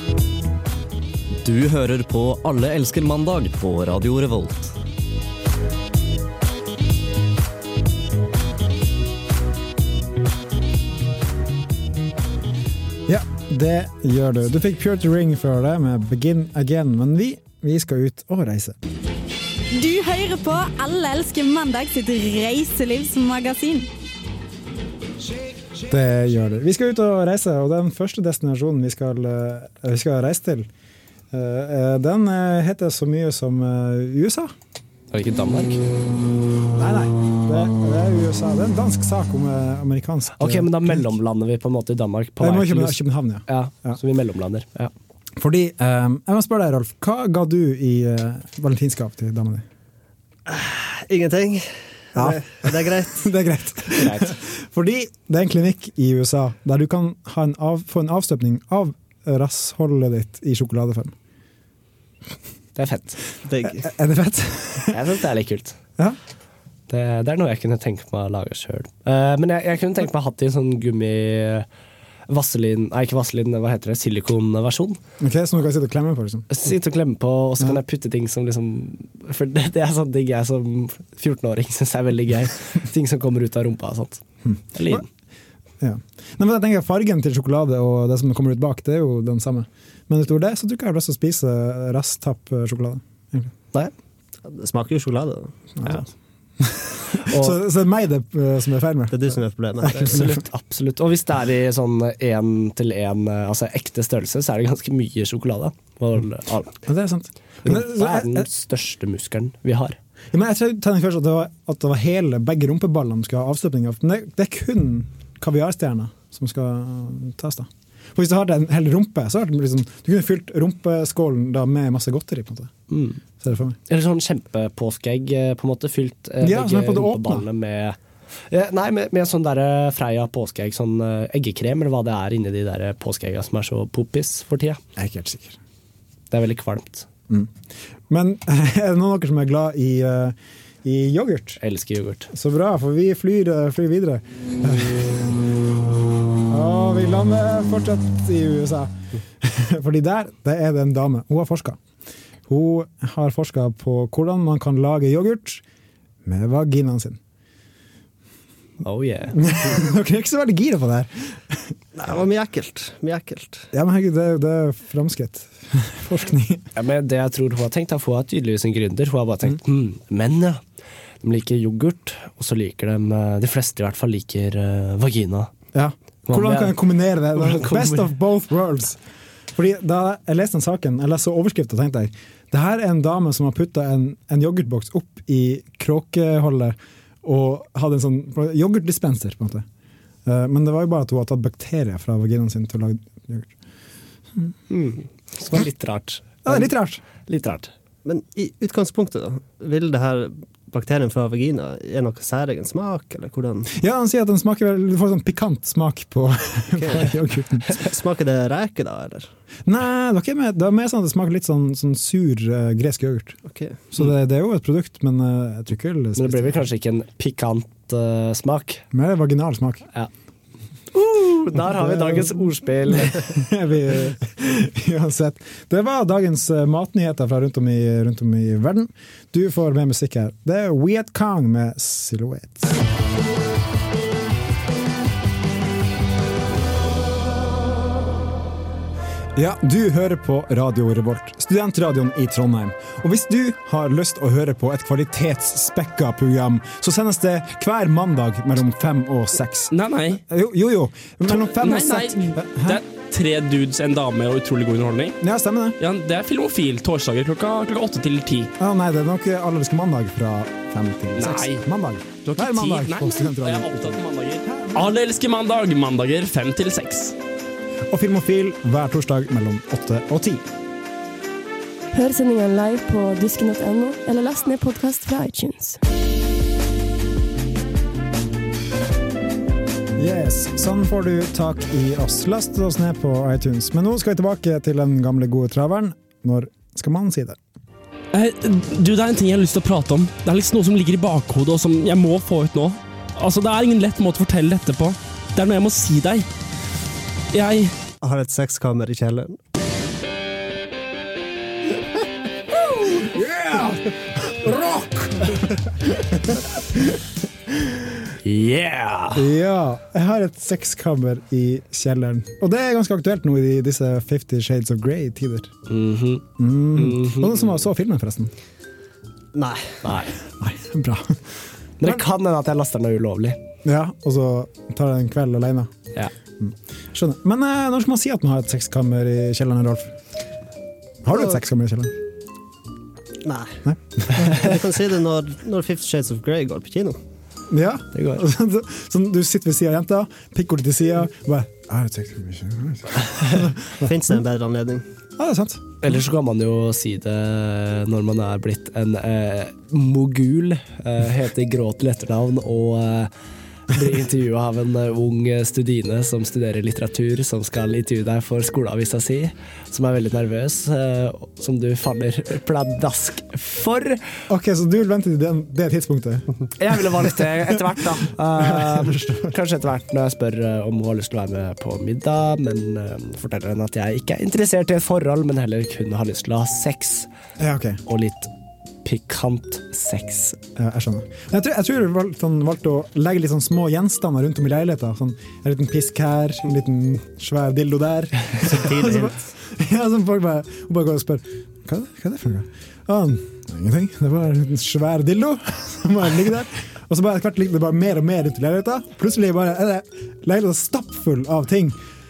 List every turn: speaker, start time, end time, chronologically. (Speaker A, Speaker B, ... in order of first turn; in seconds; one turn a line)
Speaker A: 1.4-4.7
Speaker B: 13.1-18.8
Speaker C: 19.7-23.9
Speaker B: 25.8-30.7
Speaker B: 31.3-34.5
Speaker D: 35.1-35.8
Speaker B: 36.7-41.0
Speaker D: 40.4-44.9
Speaker B: 42.4-44.0
Speaker B: 45.4-49.6
Speaker E: 50.5-53.3
Speaker B: 52.1-61.1
Speaker D: 53.9-54.3
Speaker D: 62.8-63.2
Speaker E: 63.4-63.9
Speaker B: 63.7-65.0
Speaker D: 64.9-65.8
Speaker D: 66.9-71.7
Speaker D: 72.3-75.0
Speaker B: 75.2-76.5
Speaker D: 76.5-85.0
Speaker B: 84.4-85.0
Speaker B: 85.8-93.5
Speaker E: 94.4-95.5
Speaker B: 95.8-96.0
Speaker B: 96.6-99.2
Speaker D: 97.2-97.6
Speaker E: 99.1-100.2
Speaker B: 99.8-100.3
Speaker D: 100.0-106.8
Speaker B: 106.8-108.5
Speaker D: 107.6-110.0
Speaker B: 110.3-122.7
Speaker D: 122.9-123.2
Speaker B: 123.4-123.8
Speaker D: 123.9-128.0
Speaker B: 126.4-127.4
Speaker D: 128.5-134.8
Speaker B: 134.9-135.6
Speaker D: 136.3-137.1
Speaker B: 138.1-141.6
Speaker D: 141.6-142.3
Speaker B: 142.3-145.4
Speaker B: 146.5-151.8
Speaker B: 152.5-155.6
Speaker B: 156.2-157.2
Speaker D: 158.8-159.6
Speaker B: 159.3-161.7
Speaker E: 161.9-163.7
Speaker B: 163.7-166.6
Speaker D: 166.7-170.6
Speaker D: 171.2-175.5
Speaker B: 175.7-179.0
Speaker D: 176.3-176.8
Speaker D: 177.3-178.1
Speaker B: 179.5-189.6
Speaker B: 190.2-193.5
Speaker D: 194.7-196.7
Speaker B: 196.4-197.0
Speaker D: 197.3-197.7
Speaker E: 198.0-203.7
Speaker B: 203.7-207.7
Speaker E: 206.8-207.1
Speaker E: 207.7-209.3
Speaker B: 209.7-213.4
Speaker E: 213.5-213.8
Speaker B: 213.9-216.6
Speaker D: 216.2-218.8
Speaker B: 218.9-219.9
Speaker D: 220.9-223.3
Speaker B: 221.6-232.8
Speaker B: 239.3-252.8
Speaker F: 249.7-250.2
Speaker F: 251.2-255.2
Speaker B: 255.2-255.8
Speaker F: 255.8-258.5
Speaker B: 258.6-264.9
Speaker F: 261.1-261.6
Speaker F: 262.2-267.1
Speaker B: 267.9-270.4
Speaker G: 271.9-275.8
Speaker B: 280.0-287.4
Speaker F: 288.1-296.3
Speaker F: 297.3-297.7
Speaker E: 298.0-299.4
Speaker B: 303.4-303.8
Speaker B: 304.3-304.8
Speaker B: 306.1-306.4
Speaker D: 308.2-309.2
Speaker B: 309.1-315.5
Speaker D: 315.7-317.6
Speaker B: 316.4-318.3
Speaker E: 319.3-319.8
Speaker D: 319.8-320.1
Speaker B: 320.4-321.2
Speaker D: 321.8-323.4
Speaker B: 323.6-325.7
Speaker B: 326.4-329.9
Speaker B: 331.0-331.9
Speaker E: 333.2-333.6
Speaker B: 333.6-334.5
Speaker E: 334.1-337.0
Speaker B: 337.5-343.9
Speaker D: 337.9-338.2
Speaker E: 343.8-344.8
Speaker B: 345.2-345.8
Speaker D: 345.8-353.1
Speaker D: 353.7-364.0
Speaker B: 364.3-366.2
Speaker D: 366.6-377.1
Speaker B: 368.4-369.3
Speaker B: 377.4-377.8
Speaker D: 377.9-378.3
Speaker D: 378.8-380.4
Speaker B: 380.6-401.8
Speaker E: 388.4-389.3